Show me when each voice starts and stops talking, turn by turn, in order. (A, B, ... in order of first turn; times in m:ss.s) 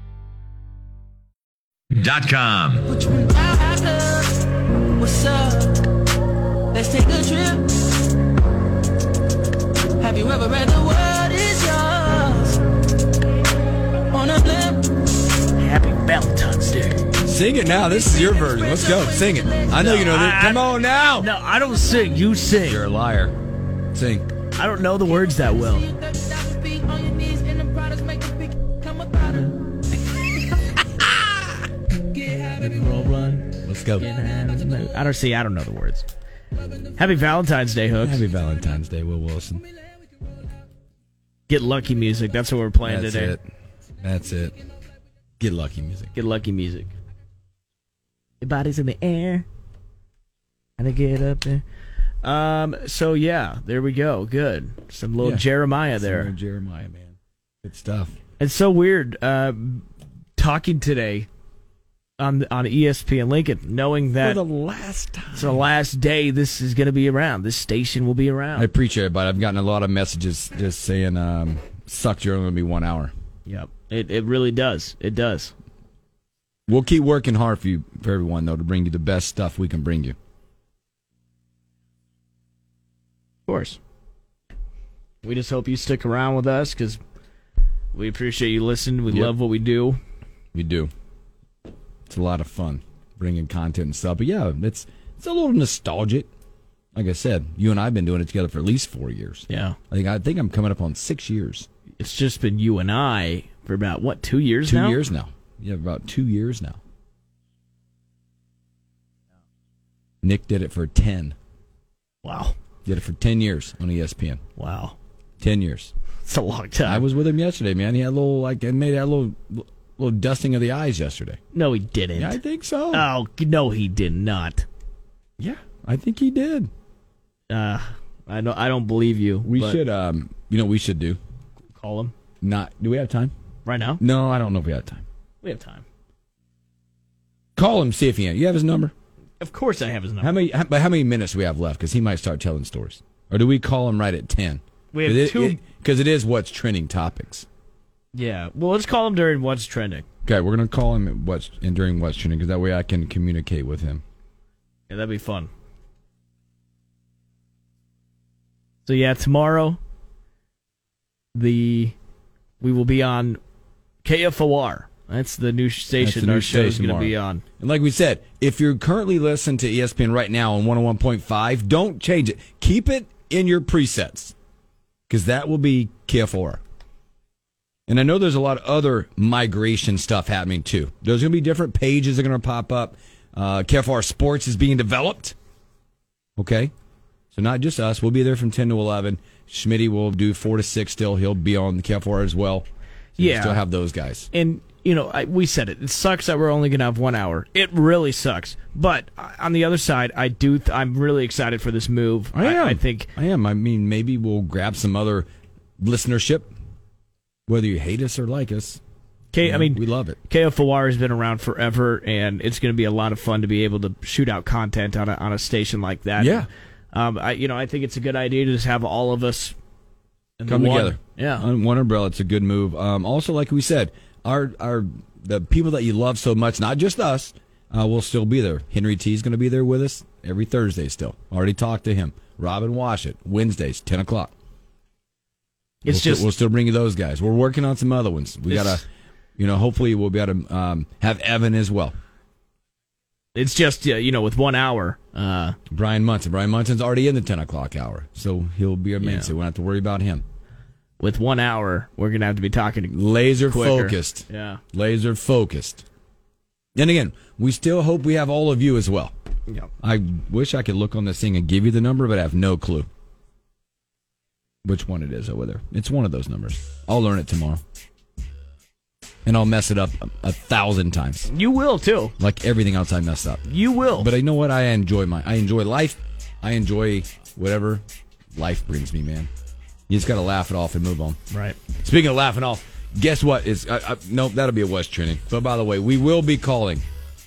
0:01.9-0:02.9 A
0:02.9-0:05.9 B
0:06.7-0:07.9 B
0:10.0-0:12.6 B
0:14.1-0:15.0 B
0:15.5-0:17.1 C
0:17.2-0:21.3 A
0:18.1-0:19.6 B
0:19.7-0:22.8 C
0:22.6-0:23.3 A
0:23.9-0:24.2 A
0:24.5-0:25.9 C
0:25.9-0:29.6 B
0:32.1-0:36.1 C
0:33.6-0:34.0 A
0:37.0-0:38.2 C
0:38.0-0:39.6 A
0:41.5-0:43.4 C
0:42.8-0:43.4 A
0:44.0-0:44.6 A
0:45.4-0:46.1 A
0:46.1-0:46.9 C
0:48.4-0:49.5 C
0:50.8-0:51.6 C
0:52.2-0:56.3 C
0:55.2-0:55.4 A
0:56.0-0:58.1 A
0:58.4-1:01.3 C
1:02.2-1:04.4 C
1:04.2-1:05.6 A
1:05.3-1:08.7 C
1:08.6-1:13.1 A
1:13.4-1:15.5 C
1:16.7-1:20.2 A
1:23.5-1:23.8 C
1:25.2-1:27.0 C
1:27.9-1:30.0 C
1:30.5-1:30.9 A
1:32.1-1:36.3 A
1:36.9-1:41.7 A
1:39.5-1:39.8 C
1:42.0-1:45.0 C
1:44.6-1:46.8 A
1:50.2-1:51.3 A
1:52.2-1:52.5 C
1:52.8-1:54.4 A
1:54.6-1:55.0 C
1:55.4-1:55.9 A
1:56.2-1:57.1 C
1:56.8-2:01.4 A
2:01.5-2:02.4 C
2:02.2-2:03.1 A
2:02.9-2:04.6 C
2:05.4-2:06.7 A
2:07.5-2:09.8 C
2:09.4-2:11.2 A
2:11.7-2:12.1 C
2:12.4-2:13.3 A
2:13.6-2:14.0 C
2:14.0-2:15.0 A
2:15.4-2:15.8 C
2:17.6-2:18.9 A
2:19.4-2:20.4 C
2:20.2-2:27.4 A
2:24.9-2:25.6 C
2:28.1-2:30.0 C
2:30.2-2:34.0 A
2:34.9-2:35.5 C
2:38.8-2:39.8 C
2:41.3-2:41.9 C
2:42.6-2:43.4 C
2:44.0-2:47.4 C
2:46.0-2:54.3 A
2:55.1-2:56.6 A
2:57.9-3:05.3 A
3:06.4-3:06.7 A
3:07.3-3:14.3 A
3:13.2-3:13.6 C
3:14.3-3:23.1 C
3:22.3-3:25.2 A
3:25.8-3:26.5 A
3:27.5-3:28.8 A
3:29.3-3:39.6 C
3:29.4-3:30.2 A
3:36.2-3:36.5 A
3:40.4-3:41.5 C
3:40.5-3:54.3 A
3:55.8-3:56.3 C
3:55.9-3:58.8 A
3:58.5-3:58.8 C
3:59.4-4:01.9 A
4:03.3-4:05.6 C
4:05.7-4:10.2 A
4:09.0-4:09.3 C
4:11.0-4:14.6 C
4:12.9-4:15.8 A
4:16.8-4:19.1 A
4:19.8-4:22.9 A
4:24.6-4:27.6 A
4:29.2-4:31.3 A
4:31.3-4:32.1 C
4:32.2-4:33.4 A
4:33.4-4:34.1 C
4:34.0-4:37.8 A
4:38.3-4:39.3 A
4:39.9-4:41.2 A
4:41.3-4:41.6 C
4:41.8-4:46.8 A